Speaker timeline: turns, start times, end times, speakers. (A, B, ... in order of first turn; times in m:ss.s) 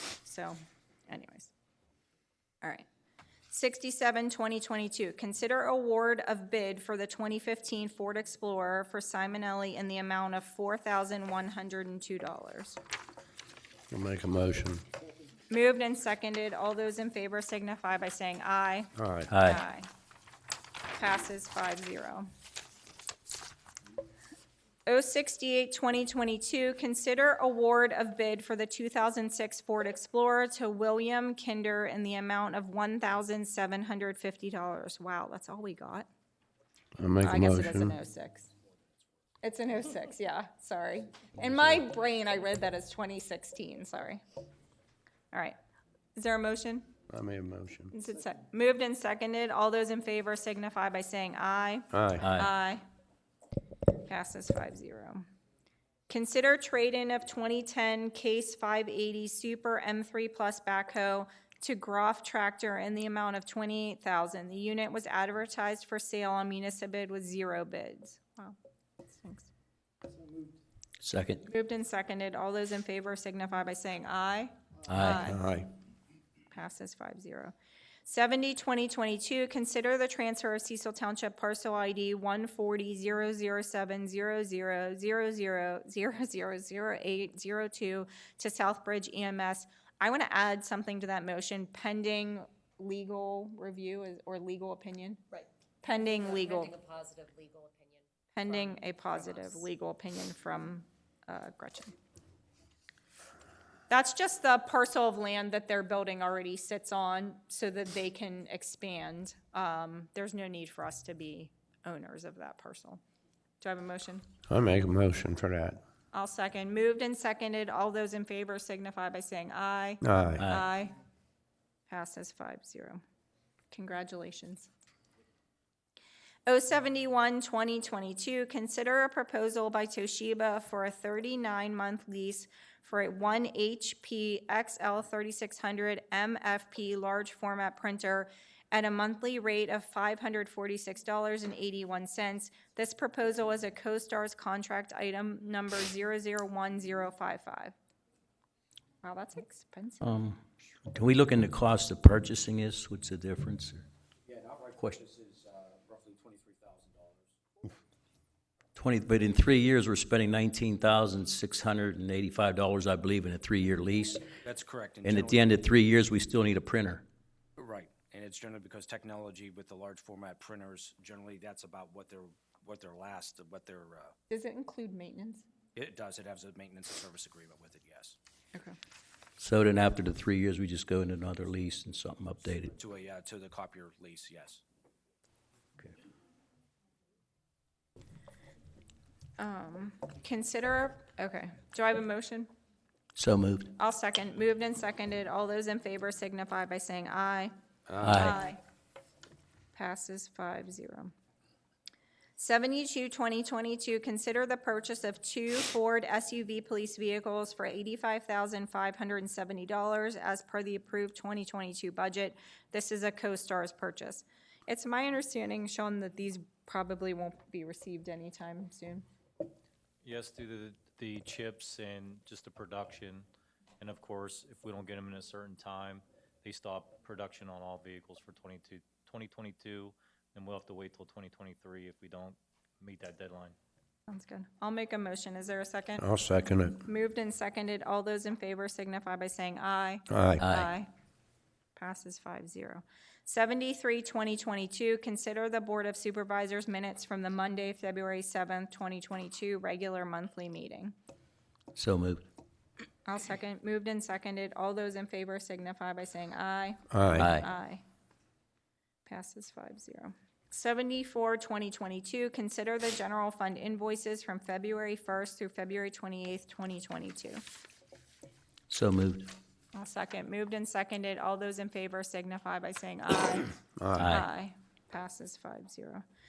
0:00.2-0:01.5 A
0:03.5-0:12.8 A
0:13.9-0:14.8 B
0:15.5-0:19.9 A
0:19.0-0:19.3 B
0:19.3-0:19.6 C
0:20.9-0:22.3 A
0:24.8-0:36.1 A
0:37.0-0:38.0 B
0:37.2-0:38.5 A
0:39.4-0:44.2 A
0:46.2-0:46.9 A
0:47.1-0:47.9 B
0:47.9-0:52.8 A
0:51.9-0:52.2 B
0:52.2-0:52.5 C
0:54.0-0:55.2 A
0:56.1-1:08.6 A
1:09.1-1:09.5 A
1:11.0-1:11.4 C
1:11.4-1:15.4 A
1:14.9-1:15.2 C
1:15.3-1:15.7 B
1:16.5-1:17.5 A
1:18.0-1:35.2 A
1:35.3-1:39.7 D
1:35.8-1:36.7 A
1:38.3-1:41.9 A
1:43.9-1:53.0 A
1:53.6-1:54.3 A
1:54.5-1:55.8 B
1:56.1-2:00.9 A
2:00.0-2:00.4 B
2:01.9-2:03.0 A
2:03.7-2:04.7 A
2:06.5-2:27.7 A
2:29.0-2:30.3 A
2:30.0-2:30.4 C
2:30.9-2:33.8 C
2:34.3-2:37.7 E
2:38.8-2:44.3 C
2:44.4-2:45.5 E
2:45.0-2:47.0 C
2:47.6-2:54.1 E
2:54.3-2:55.4 A
2:55.8-2:58.2 E
2:59.4-3:02.7 C
3:02.7-3:04.6 E
3:09.4-3:12.5 A
3:13.2-3:13.7 C
3:13.8-3:17.5 A
3:17.9-3:18.2 B
3:18.0-3:18.4 C
3:18.1-3:18.6 A
3:19.7-3:21.1 A
3:22.4-3:39.0 A
3:40.0-3:43.2 F
3:43.8-3:53.5 F
3:54.1-3:56.0 A
3:56.0-3:56.8 B
3:56.8-4:00.9 A
4:00.1-4:00.4 B
4:00.4-4:00.7 C
4:01.8-4:10.9 A
4:11.7-4:12.2 C
4:13.0-4:17.8 A
4:16.9-4:17.3 B
4:17.2-4:17.5 C
4:19.0-4:27.4 A
4:28.7-4:29.3 C
4:29.7-4:36.0 A
4:33.8-4:34.0 B
4:34.0-4:34.2 C